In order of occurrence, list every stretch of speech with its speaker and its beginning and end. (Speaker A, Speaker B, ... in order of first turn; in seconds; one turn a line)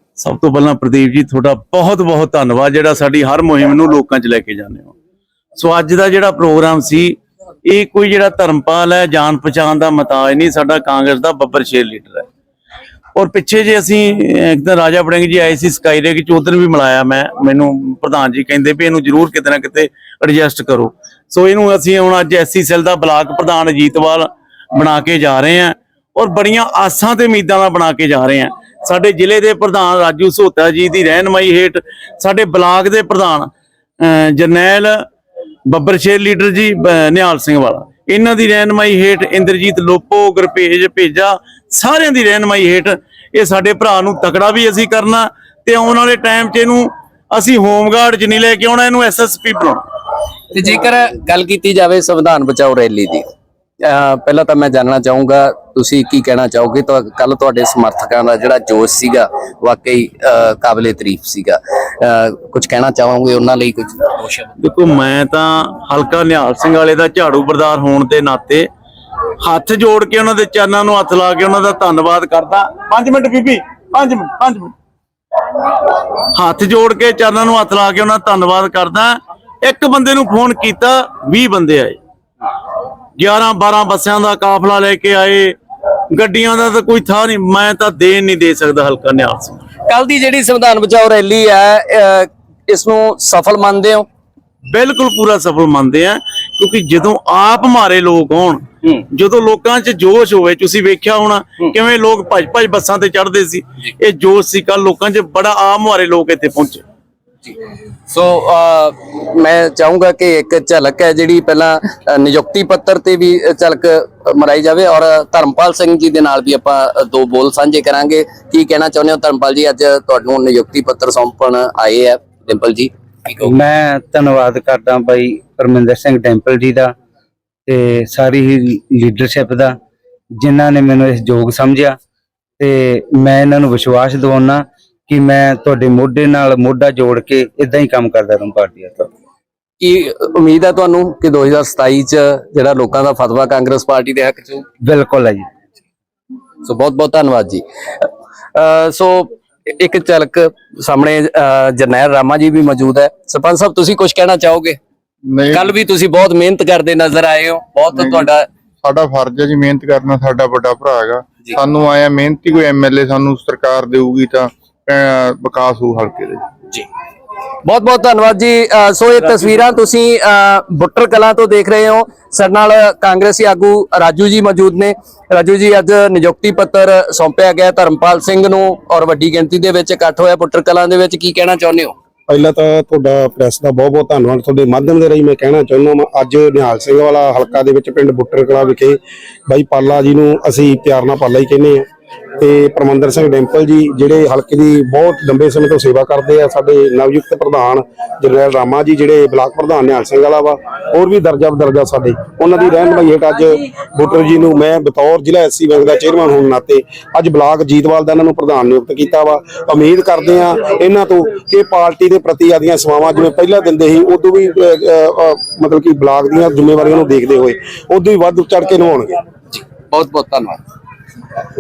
Speaker A: 0.2-4.9
Speaker A: 5.6-12.3
Speaker A: 13.2-35.0
Speaker A: 35.7-49.8
Speaker B: 50.5-53.3
Speaker B: 53.8-64.5
Speaker A: 64.6-68.7
Speaker A: 69.4-74.7
Speaker A: 76.3-82.0
Speaker A: 83.2-85.6
Speaker A: 86.1-89.6
Speaker B: 89.9-94.1
Speaker A: 94.7-106.8
Speaker B: 108.1-123.5
Speaker C: 123.5-127.0
Speaker C: 127.7-129.8
Speaker C: 130.3-132.0
Speaker C: 132.6-139.1
Speaker B: 139.8-144.7
Speaker C: 144.8-145.5
Speaker B: 146.6-154.8
Speaker D: 155.3-155.7
Speaker B: 155.5-158.5
Speaker D: 157.9-158.2
Speaker D: 158.8-166.4
Speaker B: 167.6-181.9
Speaker E: 182.3-189.0
Speaker E: 189.5-191.8
Speaker E: 192.4-219.2
Speaker B: 219.6-220.6